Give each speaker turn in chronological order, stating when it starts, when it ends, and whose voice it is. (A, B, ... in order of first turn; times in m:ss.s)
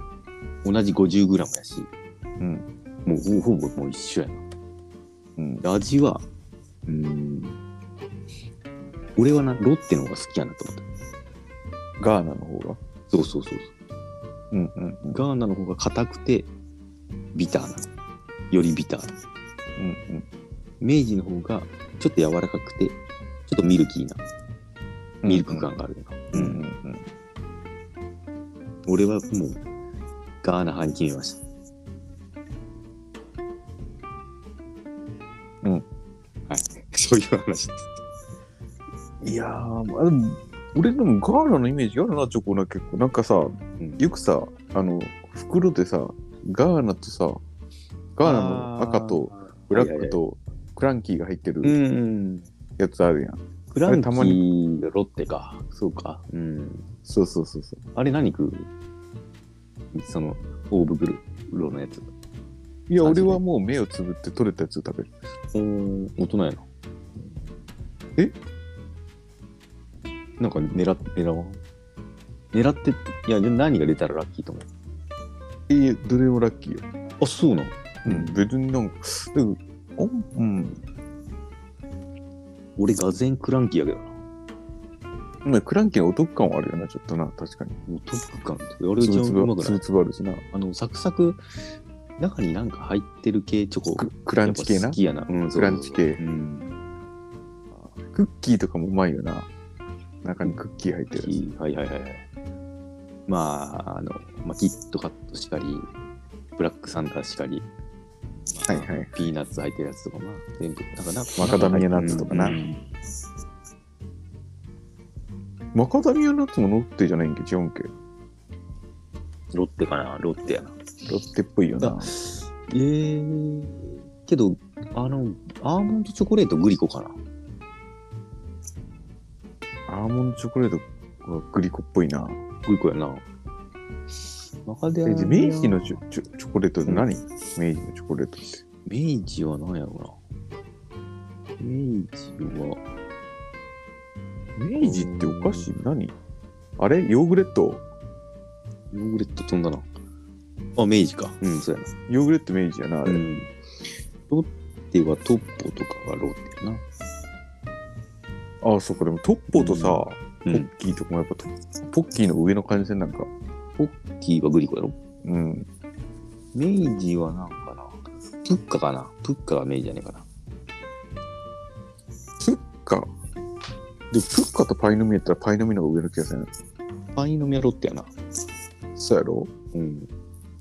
0:00.6-0:01.9 A
0:02.4-0:02.6 B
0:03.0-0:04.4 A
0:05.4-0:05.6 B
0:05.6-0:06.2 A
0:06.9-0:07.6 A
0:09.2-0:10.8 A
0:12.0-0:12.8 B
0:13.1-0:13.7 A
0:14.5-0:15.2 B
0:15.1-0:16.5 A
0:17.3-0:17.9 A
0:18.5-0:19.1 A
0:19.8-0:20.2 B
0:20.8-0:24.2 A
0:25.2-0:25.7 B
0:25.2-0:26.7 A
0:26.3-0:27.0 B
0:28.8-0:29.6 A
0:30.4-0:31.4 A
0:36.5-0:37.9 A
0:39.2-0:47.4 B
0:43.8-0:44.0 A
0:48.2-0:51.8 B
0:48.2-0:50.2 A
0:51.6-0:52.5 A
0:52.8-0:54.4 B
0:53.7-0:56.9 A
0:57.0-0:57.8 B
0:57.9-0:58.7 A
0:59.9-1:02.1 A
1:02.9-1:05.1 B
1:03.0-1:03.4 A
1:05.5-1:06.6 A
1:10.4-1:11.6 A
1:12.5-1:14.7 A
1:15.7-1:16.8 B
1:17.2-1:18.4 A
1:18.0-1:20.8 B
1:22.8-1:24.2 A
1:25.4-1:27.8 B
1:27.9-1:29.8 A
1:29.0-1:30.4 B
1:30.5-1:31.4 A
1:32.2-1:36.8 A
1:34.0-1:35.0 B
1:35.5-1:36.2 B
1:37.8-1:39.5 B
1:40.2-1:41.3 B
1:41.2-1:42.2 A
1:43.3-1:45.9 A
1:46.6-1:47.7 A
1:48.5-1:52.8 A
1:48.7-1:49.2 B
1:51.4-1:52.6 B
1:55.7-1:57.9 B
1:59.5-2:00.8 A
2:01.0-2:02.1 B
2:01.8-2:07.2 A
2:09.9-2:12.4 B
2:12.6-2:13.2 A
2:14.6-2:16.0 A
2:15.0-2:18.6 B
2:18.8-2:20.2 A
2:21.6-2:22.8 A
2:24.6-2:26.1 B
2:24.8-2:25.7 A
2:26.8-2:27.8 B
2:28.9-2:29.9 A
2:30.8-2:31.9 A
2:32.1-2:33.2 B
2:33.0-2:33.5 A
2:34.3-2:36.8 A
2:38.6-2:43.3 B
2:39.5-2:40.7 A
2:43.8-2:45.0 A
2:45.2-2:45.7 B
2:46.5-2:50.2 A
2:52.4-2:53.1 B
2:54.1-2:56.5 B
2:57.1-2:58.1 A
2:59.0-2:59.5 B
2:59.7-3:00.1 A